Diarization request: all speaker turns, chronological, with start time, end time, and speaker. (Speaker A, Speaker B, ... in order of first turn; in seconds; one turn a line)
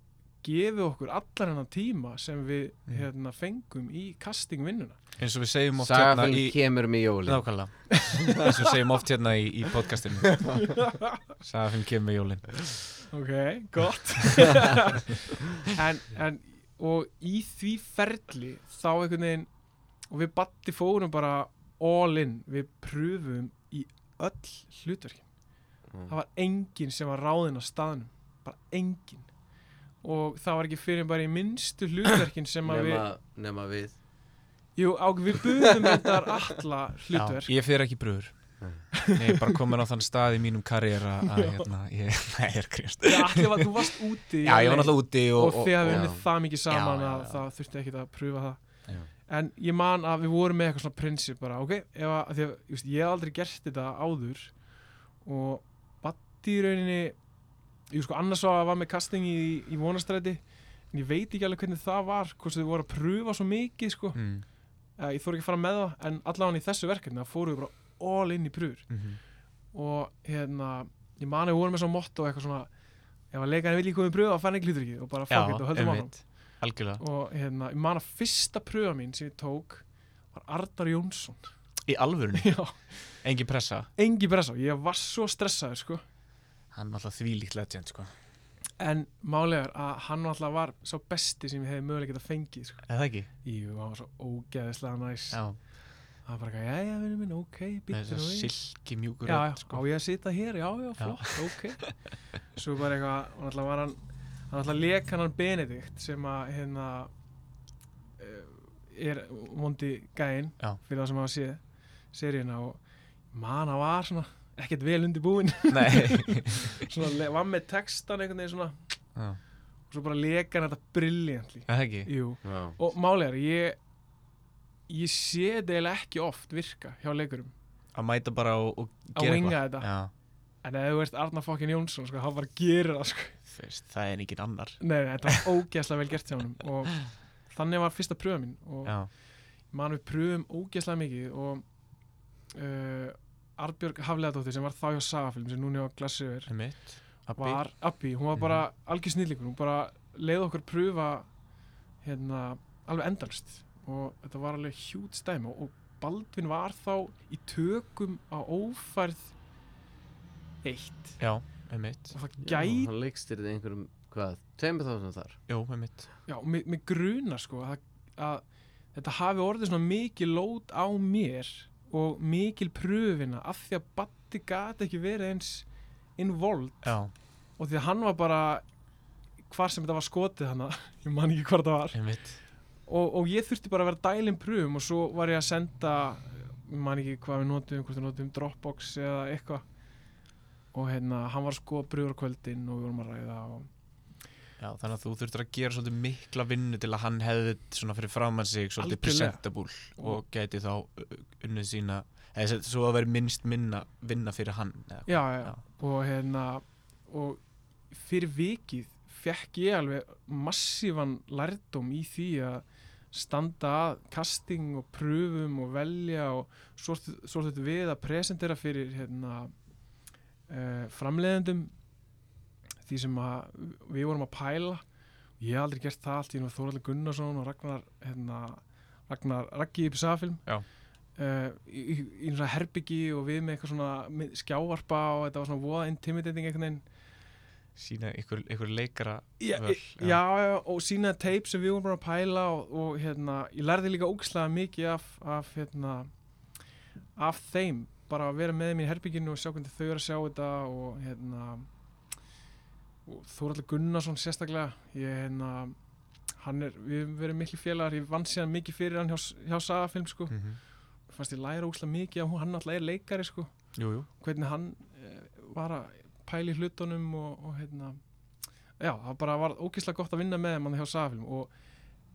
Speaker A: 0.4-5.0
Speaker B: 5.2-6.7
Speaker C: 5.8-7.5
Speaker B: 7.2-10.7
Speaker A: 7.9-8.7
Speaker A: 10.6-11.2
Speaker B: 11.4-12.8
Speaker A: 13.1-19.5
Speaker A: 20.1-25.2
Speaker A: 26.1-29.3
Speaker A: 30.0-33.0
Speaker C: 32.6-34.0
Speaker A: 34.8-37.5
Speaker B: 37.1-38.5
Speaker A: 39.0-39.6
Speaker B: 39.1-43.6
Speaker A: 41.3-41.7
Speaker A: 43.1-48.6
Speaker B: 44.4-47.4
Speaker C: 45.9-46.2
Speaker A: 49.3-54.5
Speaker A: 55.2-57.2
Speaker A: 57.9-64.2
Speaker B: 64.2-64.5
Speaker A: 65.0-68.9
Speaker B: 68.9-69.2
Speaker A: 69.7-72.7
Speaker A: 73.3-76.2
Speaker B: 75.3-77.0
Speaker A: 77.0-81.5
Speaker B: 81.9-82.6
Speaker A: 82.4-83.2
Speaker B: 83.2-83.9
Speaker A: 84.0-86.0
Speaker B: 86.7-88.1
Speaker A: 88.8-92.9
Speaker B: 92.9-93.3
Speaker A: 93.4-95.4
Speaker B: 95.3-95.6
Speaker A: 96.3-98.5
Speaker B: 97.9-99.8
Speaker A: 99.2-101.9
Speaker B: 101.0-101.9
Speaker A: 102.5-104.0
Speaker A: 104.5-107.1
Speaker A: 108.2-111.6
Speaker A: 112.1-112.8
Speaker A: 113.3-119.0
Speaker B: 115.7-116.8
Speaker B: 119.2-119.4
Speaker A: 119.9-123.8
Speaker B: 121.7-122.1
Speaker C: 122.4-122.8
Speaker A: 124.9-127.5
Speaker B: 128.0-130.1
Speaker A: 129.2-129.9
Speaker A: 130.6-133.4
Speaker B: 133.5-135.4
Speaker A: 134.8-139.1
Speaker B: 138.8-139.1
Speaker A: 139.7-141.6
Speaker A: 142.5-146.5
Speaker B: 146.5-147.6
Speaker A: 147.4-151.3
Speaker B: 148.3-148.6
Speaker A: 152.0-159.3
Speaker A: 160.6-161.2
Speaker B: 161.2-162.2
Speaker A: 162.1-162.9
Speaker C: 162.4-165.4
Speaker B: 165.5-166.1
Speaker A: 166.3-175.7
Speaker A: 176.2-176.9
Speaker B: 176.8-177.1
Speaker A: 177.6-178.7
Speaker A: 179.5-182.0
Speaker B: 181.9-182.4
Speaker A: 182.9-189.6
Speaker A: 190.7-193.7
Speaker B: 194.6-205.6
Speaker A: 198.8-199.4
Speaker A: 200.0-200.2
Speaker A: 205.1-219.5
Speaker A: 220.5-221.7
Speaker A: 222.9-224.8
Speaker A: 225.4-230.4
Speaker A: 231.2-236.8
Speaker B: 237.8-240.2
Speaker A: 239.4-246.1
Speaker A: 247.2-251.7
Speaker A: 253.1-255.8
Speaker A: 256.4-260.4
Speaker B: 260.3-260.6
Speaker A: 261.1-263.5
Speaker B: 263.8-264.1
Speaker A: 264.1-268.0
Speaker A: 268.8-271.5